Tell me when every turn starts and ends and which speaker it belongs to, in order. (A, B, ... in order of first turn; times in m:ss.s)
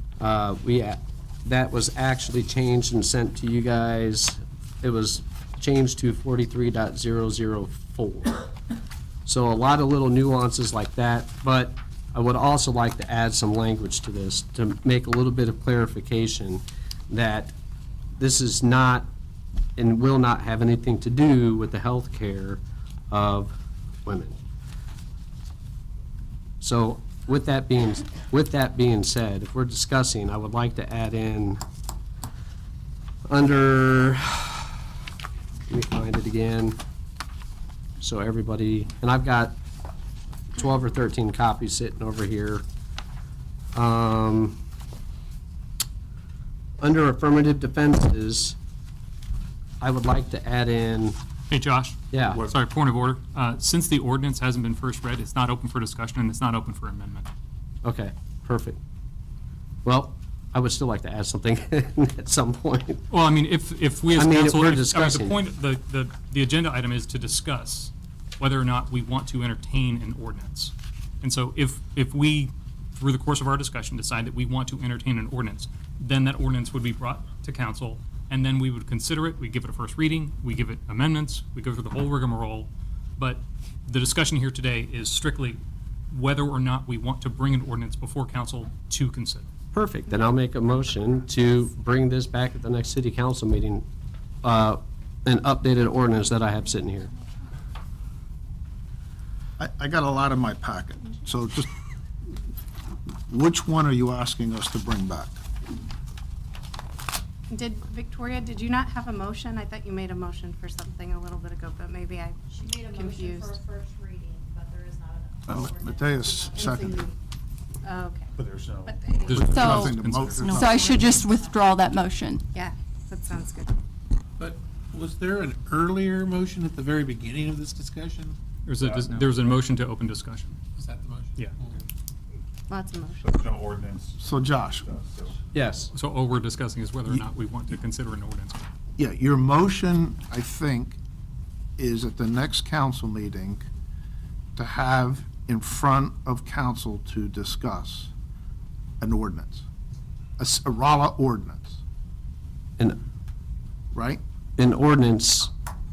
0:00.2-0:08.5 A
0:09.3-0:17.5 A
0:18.2-0:19.1 A
0:19.8-0:23.5 A
0:24.0-0:24.4 A
0:26.6-0:31.6 A
0:33.3-0:34.7 A
0:35.7-0:36.8 A
0:38.0-0:39.6 A
0:40.5-0:42.6 A
0:43.7-0:44.6 A
0:46.8-0:48.6 A
0:49.8-0:51.2 A
0:51.5-0:57.3 B
0:52.1-0:52.4 A
0:57.8-0:58.8 A
0:59.8-1:03.0 A
1:03.1-1:25.6 B
1:04.2-1:05.4 A
1:26.1-1:29.5 B
1:29.7-1:33.8 A
1:34.4-1:37.1 A
1:39.6-1:41.7 C
1:43.3-1:45.4 C
1:47.5-1:53.6 D
1:52.5-1:57.1 E
1:55.5-1:55.9 F
1:55.5-1:57.1 C
1:56.5-1:57.1 D
1:57.8-1:58.3 D
1:58.4-1:59.5 F
1:58.9-1:59.4 D
1:59.2-2:00.9 B
1:59.3-2:00.7 C
1:59.4-2:02.4 G
2:00.8-2:01.3 D
2:02.5-2:03.7 D
2:04.4-2:08.4 H
2:08.7-2:10.6 B
2:08.8-2:09.4 F
2:10.8-2:11.9 H
2:12.7-2:13.4 D
2:13.2-2:14.2 F
2:14.2-2:14.9 C
2:14.9-2:15.3 F
2:15.5-2:15.9 A
2:15.9-2:18.7 B
2:19.0-2:21.0 C
2:21.8-2:23.7 C
2:24.6-2:28.1 C
2:29.0-2:29.6 C
2:30.4-2:31.8 C
2:33.9-2:34.2 C
2:34.6-2:35.5 A